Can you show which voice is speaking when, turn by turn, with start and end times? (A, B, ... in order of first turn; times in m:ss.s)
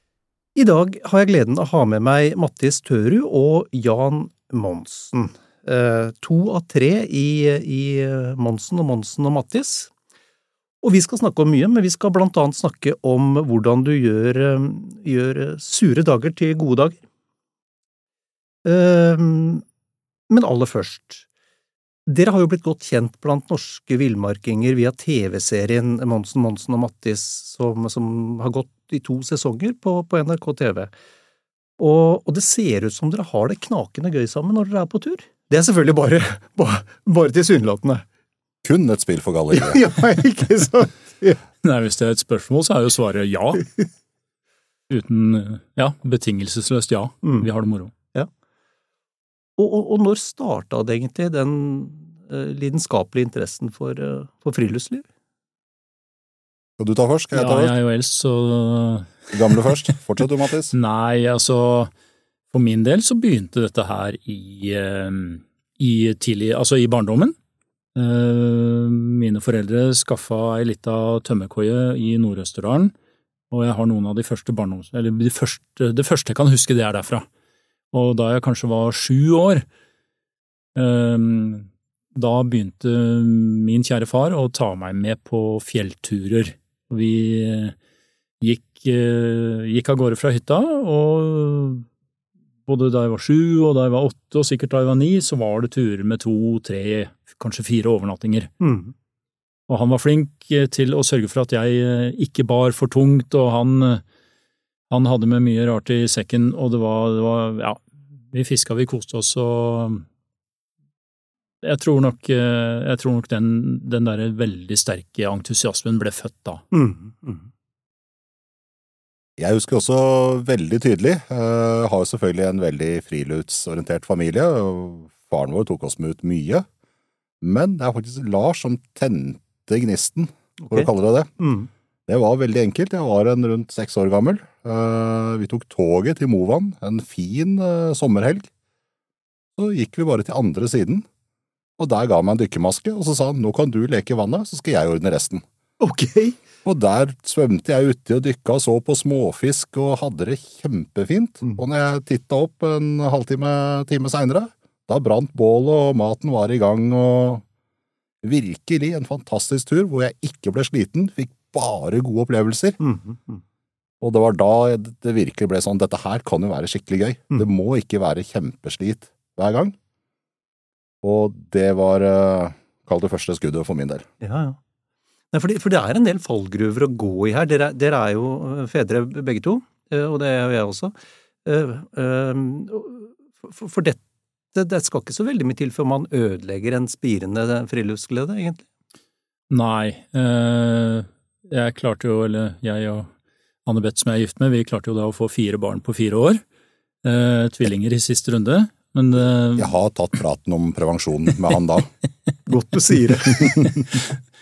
0:00.6-0:09.9 A
0:10.8-0:17.0 A
0:18.6-0:19.6 A
0:20.3-0:21.2 A
0:22.1-0:30.9 A
0:31.8-0:38.0 A
0:38.6-0:39.8 B
0:39.5-0:41.4 A
0:41.6-0:43.6 C
0:44.9-0:47.9 C
0:47.2-0:47.5 A
0:49.6-0:55.1 A
0:56.8-0:57.7 B
0:57.3-0:59.6 C
0:59.3-1:00.8 B
1:00.7-1:01.9 C
1:02.5-1:07.4 C
1:08.0-1:12.9 C
1:13.5-1:17.3 C
1:17.9-1:19.6 C
1:20.8-1:27.8 C
1:28.4-1:31.8 C
1:32.7-1:38.5 C
1:38.6-1:38.9 A
1:39.7-1:44.0 C
1:44.9-1:50.0 C
1:51.6-1:56.6 C
1:56.7-1:57.5 A
1:59.4-2:06.7 B
2:07.4-2:11.3 B
2:10.6-2:11.7 A
2:12.1-2:18.5 B
2:19.6-2:21.1 B
2:21.8-2:25.4 B
2:25.8-2:26.4 A
2:26.6-2:37.4 B
2:38.2-2:42.8 B
2:42.8-2:43.4 A
2:44.0-2:49.8 B
2:51.0-2:54.1 B
2:54.2-2:54.6 A
2:55.3-3:00.9 A
3:01.4-3:04.0 A
3:04.5-3:08.7 A
3:09.5-3:13.1 C
3:13.7-3:16.4 C
3:17.0-3:19.7 C
3:19.6-3:21.9 B
3:22.5-3:23.7 A